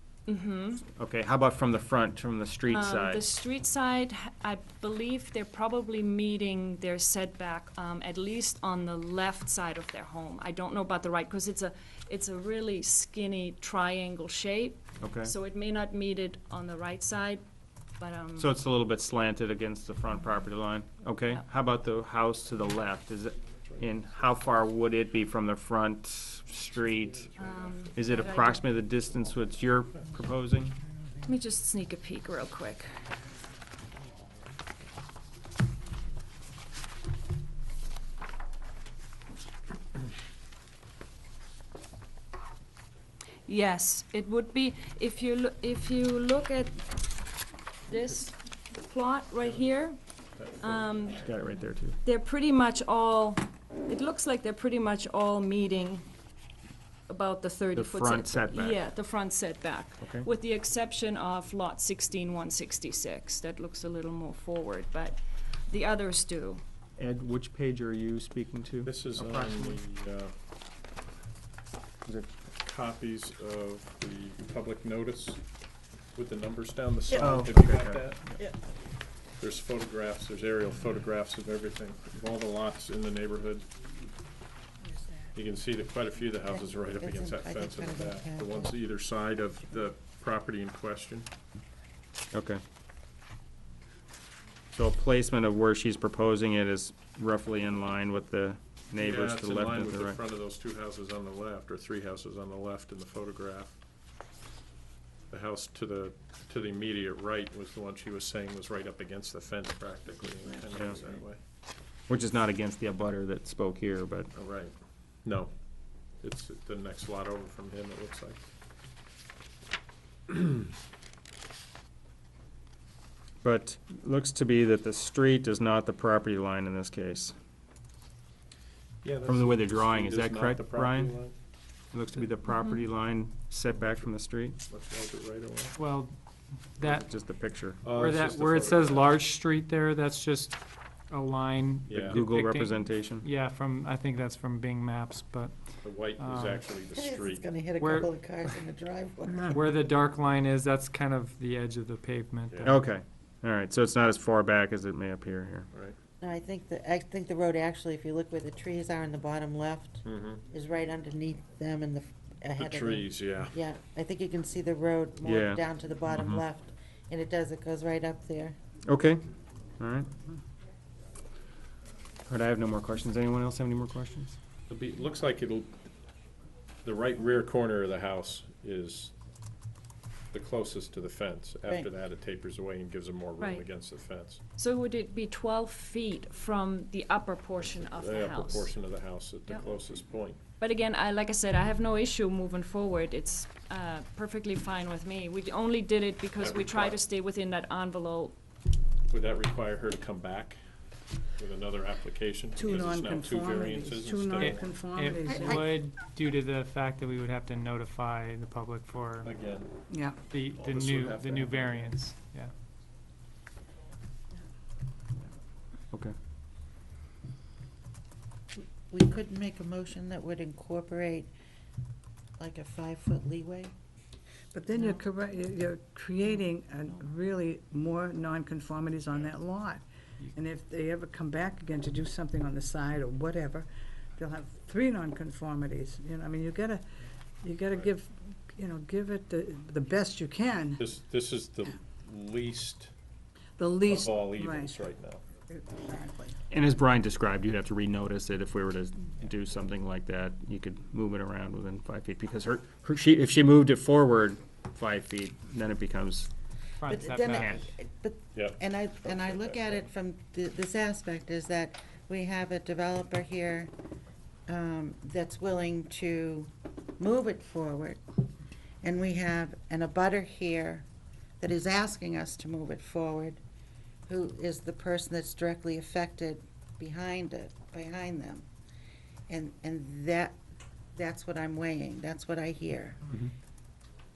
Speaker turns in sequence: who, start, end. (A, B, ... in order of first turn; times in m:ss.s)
0:00.3-0:00.8 A
0:01.0-0:03.2 B
0:02.7-0:17.4 A
0:15.0-0:15.3 B
0:18.0-0:18.5 A
0:18.4-0:27.3 B
0:23.6-0:23.9 C
0:27.4-0:28.6 A
0:27.5-0:27.7 C
0:28.0-0:30.8 B
0:31.3-0:32.9 A
0:43.5-0:47.0 A
0:47.9-0:50.0 A
0:50.4-0:51.1 C
0:50.6-0:51.3 A
0:51.2-0:52.0 B
0:52.0-0:56.1 A
0:57.1-1:06.6 A
0:57.8-0:58.8 B
1:00.0-1:00.3 B
1:07.0-1:09.8 B
1:08.8-1:10.3 C
1:12.0-1:12.4 B
1:12.6-1:15.4 C
1:16.2-1:18.4 C
1:17.2-1:18.3 B
1:19.4-1:23.7 C
1:25.4-1:31.3 C
1:26.5-1:28.8 D
1:32.3-1:32.6 B
1:34.8-1:40.2 B
1:39.0-1:43.8 C
1:45.3-1:51.4 C
1:52.1-1:54.3 B
1:54.4-1:55.5 C
1:56.2-1:58.4 C
2:03.4-2:07.4 B
2:09.0-2:11.4 C
2:09.2-2:11.2 B
2:11.9-2:14.6 B
2:12.5-2:12.8 A
2:13.7-2:14.1 C
2:14.7-2:15.8 C
2:15.8-2:16.2 E
2:16.8-2:17.1 E
2:16.8-2:17.8 B
2:17.8-2:19.2 C
2:17.9-2:26.6 E
2:21.9-2:22.3 C
2:22.1-2:23.3 B
2:25.8-2:27.5 C
2:26.9-2:29.9 D
2:27.8-2:28.1 E
2:29.5-2:32.8 E
2:32.5-2:32.8 C
2:32.6-2:35.7 B
2:36.2-2:48.6 D
2:40.0-2:40.4 C
2:42.6-2:43.6 C
2:45.2-2:46.4 B
2:48.9-2:49.2 B
2:49.8-2:50.1 B
2:52.3-2:54.4 B
2:54.7-2:55.8 C
2:56.8-2:59.1 C
3:00.3-3:04.4 C
3:01.7-3:01.9 D
3:04.6-3:08.7 A
3:07.6-3:10.4 C
3:10.6-3:18.4 A
3:16.4-3:17.0 C
3:19.1-3:20.6 C
3:21.4-3:24.8 C
3:22.6-3:25.6 F
3:24.4-3:29.3 E
3:25.2-3:25.7 D
3:29.2-3:29.8 C
3:29.9-3:30.2 F
3:30.3-3:32.5 E
3:30.3-3:32.0 C
3:38.9-3:41.3 D
3:42.4-3:43.7 D
3:44.5-3:56.8 F
3:57.4-4:00.8 F
4:00.8-4:02.9 C
4:03.6-4:04.8 F
4:03.8-4:05.2 C
4:05.5-4:06.4 F
4:06.5-4:16.3 B
4:16.8-4:17.6 E
4:16.9-4:23.7 D
4:17.4-4:17.7 B
4:18.4-4:19.8 C
4:24.5-4:28.0 D
4:28.8-4:30.9 D
4:31.4-4:33.4 D
4:34.1-4:38.5 D
4:39.3-4:40.4 D
4:40.9-4:43.0 D